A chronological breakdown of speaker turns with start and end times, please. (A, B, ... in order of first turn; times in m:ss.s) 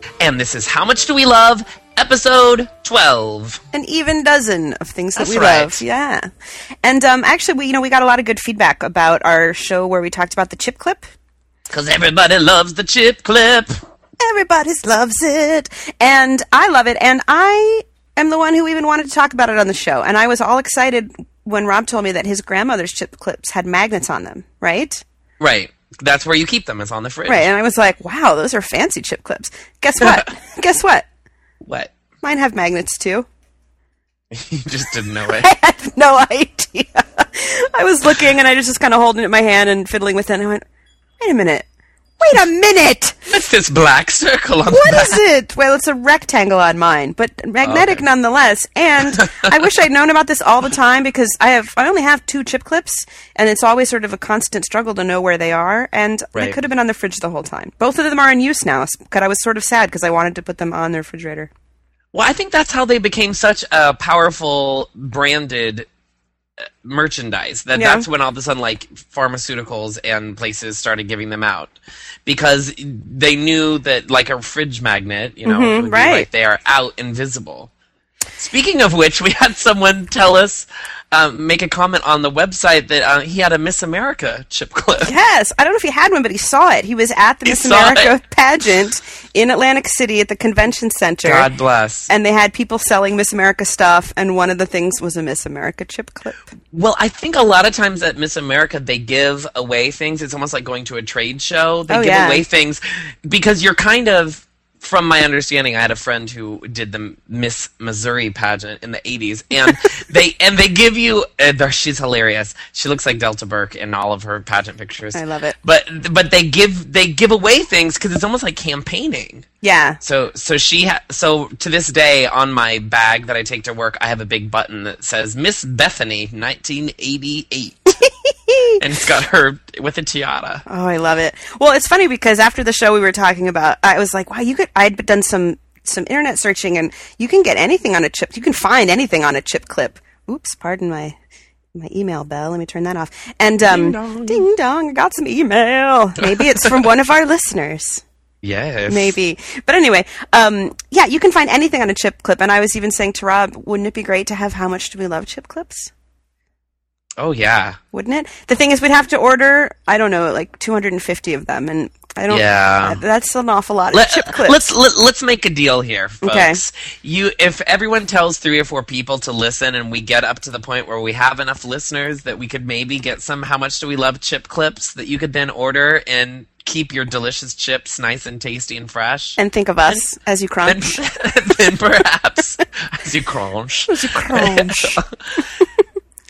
0:00.2-0:03.6 A
0:03.7-0:06.3 B
0:05.2-0:05.8 A
0:06.8-0:11.1 B
0:11.7-0:13.8 A
0:14.2-0:25.0 B
0:25.4-0:27.5 A
0:27.3-0:31.0 B
0:31.6-0:31.9 A
0:32.2-0:33.3 B
0:34.3-0:35.5 A
0:35.3-0:40.6 B
0:41.2-0:41.6 B
0:42.2-0:43.2 B
0:43.3-0:45.2 A
0:44.6-1:01.5 B
0:47.6-0:48.0 A
1:02.1-1:05.9 A
1:06.8-1:11.7 A
1:07.7-1:08.0 B
1:12.2-1:17.7 A
1:15.4-1:16.3 B
1:18.4-1:25.1 A
1:25.0-1:31.5 B
1:27.4-1:28.1 A
1:31.2-1:32.1 A
1:32.1-1:36.5 B
1:36.7-1:59.4 A
1:41.9-1:42.4 B
1:55.1-1:55.6 B
1:59.6-2:00.0 B
2:00.0-2:07.9 A
2:08.0-2:08.8 B
2:08.8-2:10.6 A
2:10.7-2:21.2 B
2:21.7-2:28.0 B
2:23.6-2:24.4 A
2:26.2-2:26.7 A
2:28.4-2:29.1 A
2:28.9-2:35.9 B
2:37.2-2:37.8 A
2:37.9-2:44.6 B
2:42.3-2:43.0 A
2:43.9-3:00.0 A
2:46.2-2:46.6 B
2:59.4-3:01.0 B
3:00.6-3:05.4 A
3:03.9-3:05.0 B